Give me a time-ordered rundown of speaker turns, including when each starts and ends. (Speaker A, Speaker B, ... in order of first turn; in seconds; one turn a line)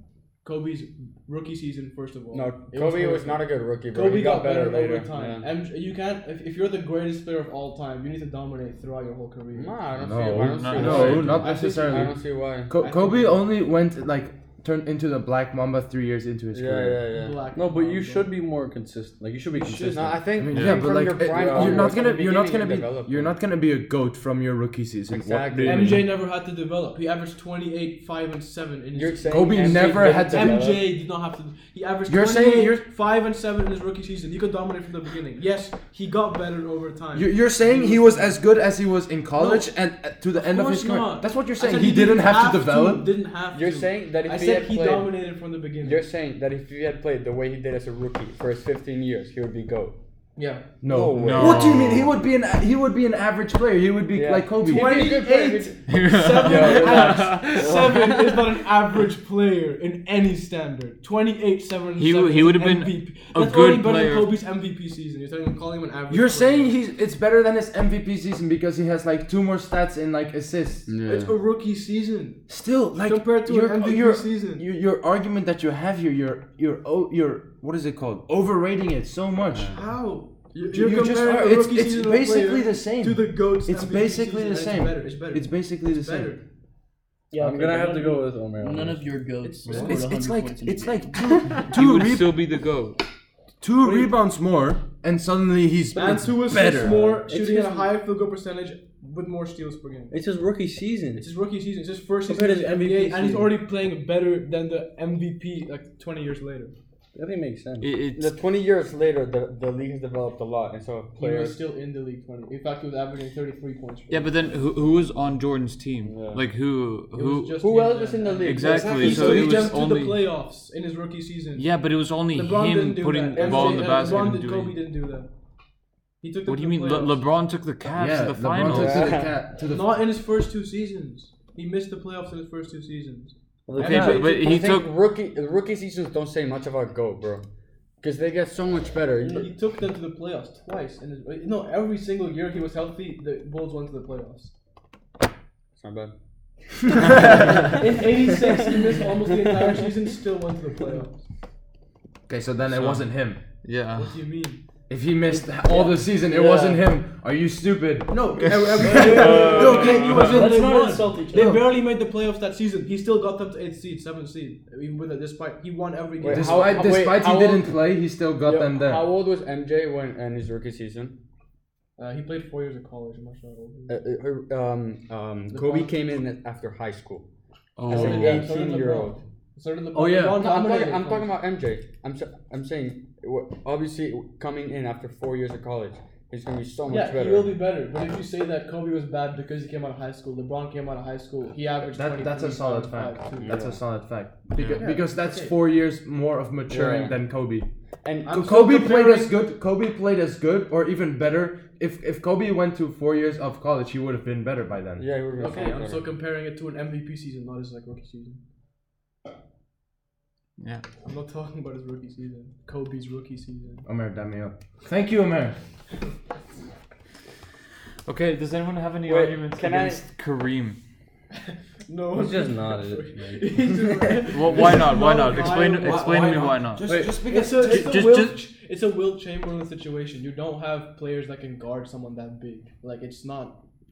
Speaker A: 0.4-9.8
Speaker B: 2.3-5.5
Speaker B: 9.5-12.7
Speaker C: 10.0-17.1
Speaker D: 10.3-11.5
Speaker A: 10.7-12.1
Speaker A: 12.8-13.4
Speaker B: 16.5-17.4
Speaker A: 17.1-18.4
Speaker E: 17.5-20.3
Speaker A: 19.5-20.2
Speaker B: 19.9-23.3
Speaker C: 20.3-26.1
Speaker D: 20.5-21.0
Speaker B: 25.1-26.0
Speaker A: 25.6-38.4
Speaker B: 28.9-30.8
Speaker C: 29.3-30.7
Speaker C: 32.1-32.8
Speaker C: 37.1-43.1
Speaker A: 39.3-39.7
Speaker A: 40.3-46.0
Speaker B: 43.5-45.2
Speaker B: 45.8-50.0
Speaker A: 50.4-50.7
Speaker C: 50.8-55.1
Speaker B: 50.8-52.0
Speaker D: 51.2-52.1
Speaker B: 54.1-57.5
Speaker A: 54.6-66.7
Speaker D: 55.9-58.1
Speaker D: 62.0-64.3
Speaker C: 66.1-71.0
Speaker B: 70.9-71.3
Speaker A: 71.0-74.6
Speaker C: 72.5-79.8
Speaker B: 79.5-79.8
Speaker A: 79.7-86.4
Speaker C: 80.5-86.4
Speaker F: 87.3-91.5
Speaker E: 87.3-89.1
Speaker C: 89.6-92.4
Speaker D: 91.6-93.0
Speaker C: 93.6-97.0
Speaker A: 95.9-100.2
Speaker E: 96.6-97.9
Speaker E: 100.1-101.3
Speaker A: 101.2-106.7
Speaker E: 102.2-103.6
Speaker E: 107.1-107.9
Speaker D: 107.8-108.4
Speaker B: 108.1-111.6
Speaker A: 111.2-114.5
Speaker D: 114.1-117.6
Speaker B: 116.0-116.4
Speaker A: 117.1-125.3
Speaker B: 117.6-119.1
Speaker D: 118.4-120.2
Speaker C: 118.6-119.8
Speaker D: 121.6-124.8
Speaker B: 123.4-124.2
Speaker A: 126.2-127.2
Speaker D: 126.5-129.2
Speaker C: 127.9-130.0
Speaker B: 128.6-129.3
Speaker A: 129.6-133.3
Speaker E: 133.7-134.3
Speaker D: 133.8-134.9
Speaker B: 133.8-137.4
Speaker B: 138.0-139.5
Speaker A: 139.2-144.5
Speaker B: 145.8-146.1
Speaker B: 147.5-147.9
Speaker A: 147.5-151.2
Speaker B: 148.5-148.8
Speaker B: 149.3-149.8
Speaker C: 152.3-153.4
Speaker D: 152.7-153.1
Speaker D: 153.6-154.2
Speaker A: 153.9-154.6
Speaker C: 154.9-160.7
Speaker A: 158.1-166.9
Speaker F: 158.8-161.5
Speaker D: 159.0-160.4
Speaker C: 161.3-161.7
Speaker B: 166.2-167.9
Speaker C: 166.3-169.1
Speaker B: 168.4-171.2
Speaker A: 172.0-174.0
Speaker B: 173.9-177.2
Speaker A: 175.5-175.9
Speaker D: 177.8-178.4
Speaker B: 177.9-179.2
Speaker A: 177.9-181.4
Speaker E: 179.9-180.4
Speaker B: 180.3-187.6
Speaker A: 186.9-193.7
Speaker C: 191.8-197.7
Speaker B: 193.4-193.8
Speaker D: 194.6-194.9
Speaker A: 194.7-195.6
Speaker B: 196.7-197.2
Speaker B: 198.0-198.3
Speaker A: 198.2-199.4
Speaker C: 198.3-205.2
Speaker B: 205.0-206.1
Speaker A: 205.4-208.4
Speaker D: 210.6-210.8
Speaker A: 211.0-213.8
Speaker C: 213.8-215.6
Speaker D: 218.1-220.8
Speaker B: 219.0-220.0
Speaker A: 221.3-226.6
Speaker E: 222.1-224.2
Speaker D: 224.3-227.1
Speaker C: 225.3-228.0
Speaker E: 226.8-227.3
Speaker A: 227.1-233.6
Speaker D: 227.6-228.4